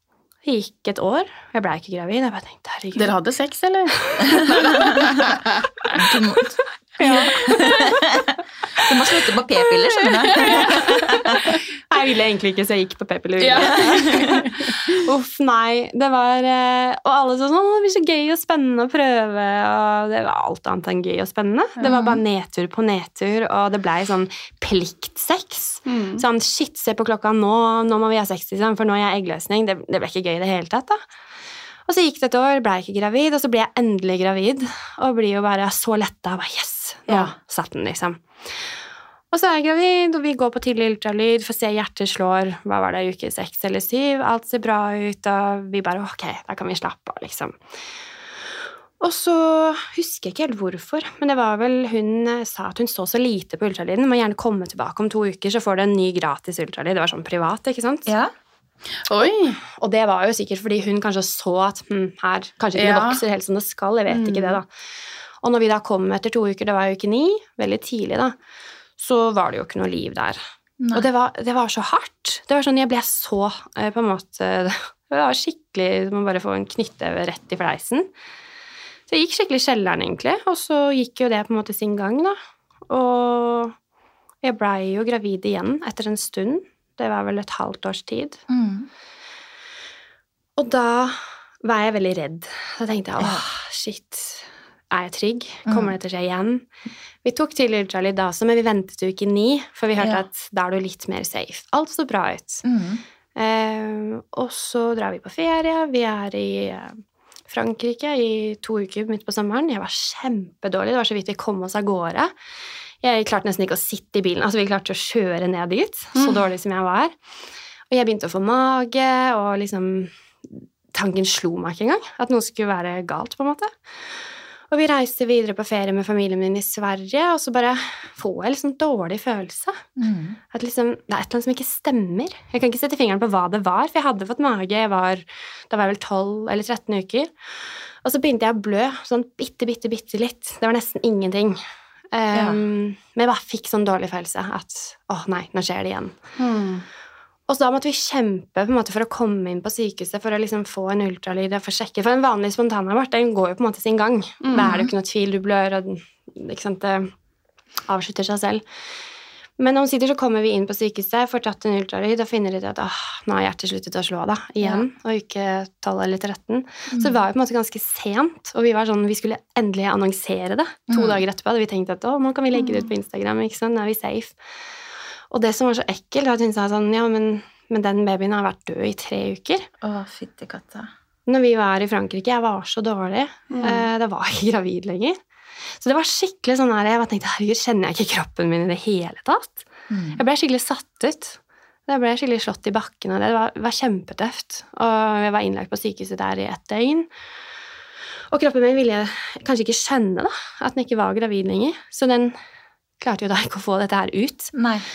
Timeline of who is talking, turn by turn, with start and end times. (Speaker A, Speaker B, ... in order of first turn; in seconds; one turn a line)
Speaker A: 0.4-3.1
Speaker B: 3.0-5.7
Speaker A: 4.1-4.9
Speaker C: 5.0-5.2
Speaker C: 5.9-11.5
Speaker A: 7.0-8.0
Speaker B: 10.1-11.5
Speaker A: 10.3-31.0
Speaker B: 13.4-14.7
Speaker C: 13.8-14.4
Speaker B: 21.8-22.1
Speaker C: 21.9-22.2
Speaker B: 25.9-26.2
Speaker A: 31.9-38.7
Speaker A: 39.3-47.6
Speaker A: 49.0-58.1
Speaker C: 58.0-58.3
Speaker B: 59.0-59.6
Speaker A: 59.6-64.7
Speaker B: 62.7-63.2
Speaker B: 64.1-64.6
Speaker A: 65.4-68.3
Speaker A: 69.0-70.4
Speaker C: 70.8-71.1
Speaker A: 70.9-78.1
Speaker A: 79.1-82.4
Speaker A: 82.9-83.7
Speaker A: 84.4-88.4
Speaker C: 88.5-88.9
Speaker A: 90.6-96.7
Speaker C: 95.7-95.9
Speaker A: 97.2-102.6
Speaker C: 100.0-100.2
Speaker C: 102.6-103.0
Speaker A: 103.3-112.3
Speaker A: 113.0-117.1
Speaker B: 116.1-116.4
Speaker A: 117.9-123.7
Speaker A: 124.7-129.8
Speaker C: 130.0-130.4
Speaker A: 130.5-137.3
Speaker A: 138.0-141.6
Speaker A: 142.1-146.2
Speaker C: 142.3-142.6
Speaker B: 146.4-146.8
Speaker A: 147.5-157.1
Speaker B: 154.4-154.8
Speaker C: 154.5-154.9
Speaker A: 157.9-158.6
Speaker A: 159.6-174.3
Speaker C: 166.9-167.2
Speaker C: 170.9-171.2
Speaker B: 172.6-172.9
Speaker A: 175.3-179.7
Speaker C: 179.8-180.9
Speaker A: 181.3-185.2
Speaker B: 183.5-183.8
Speaker A: 185.7-197.1
Speaker C: 189.9-190.2
Speaker A: 198.3-202.4
Speaker A: 203.0-204.5
Speaker C: 204.5-204.8